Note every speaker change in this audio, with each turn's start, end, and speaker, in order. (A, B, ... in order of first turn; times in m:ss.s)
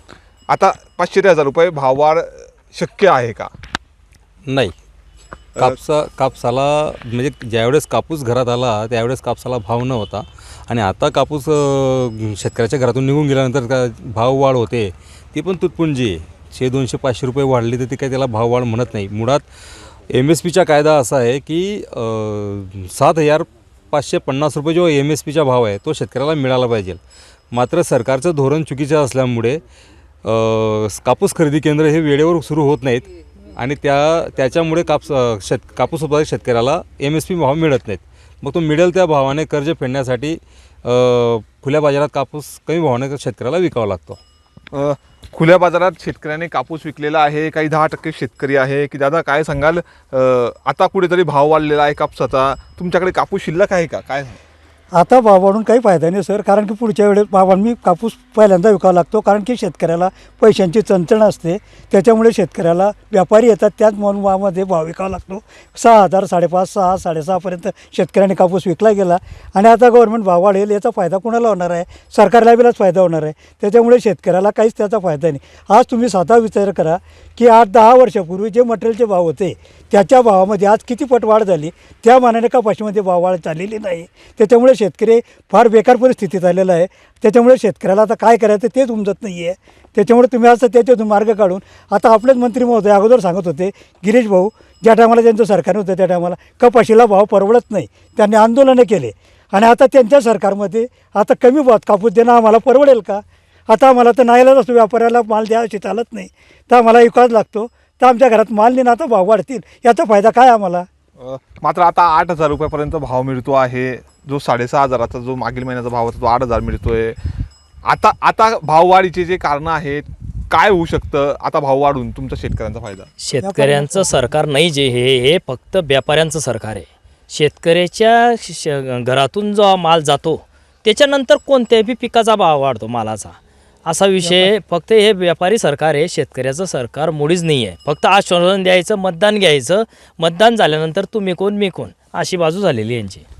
0:00.5-0:03.5 A
0:04.5-0:04.7 B
0:05.6-0:19.4 B
0:20.1-0:27.0 B
0:27.5-0:29.6 B
0:30.2-0:44.2 B
0:44.7-0:54.4 A
0:54.9-1:50.8 C
1:51.2-1:57.2 A
1:57.9-2:03.1 A
2:03.2-2:23.2 D
2:03.4-2:04.2 C
2:14.2-2:14.5 C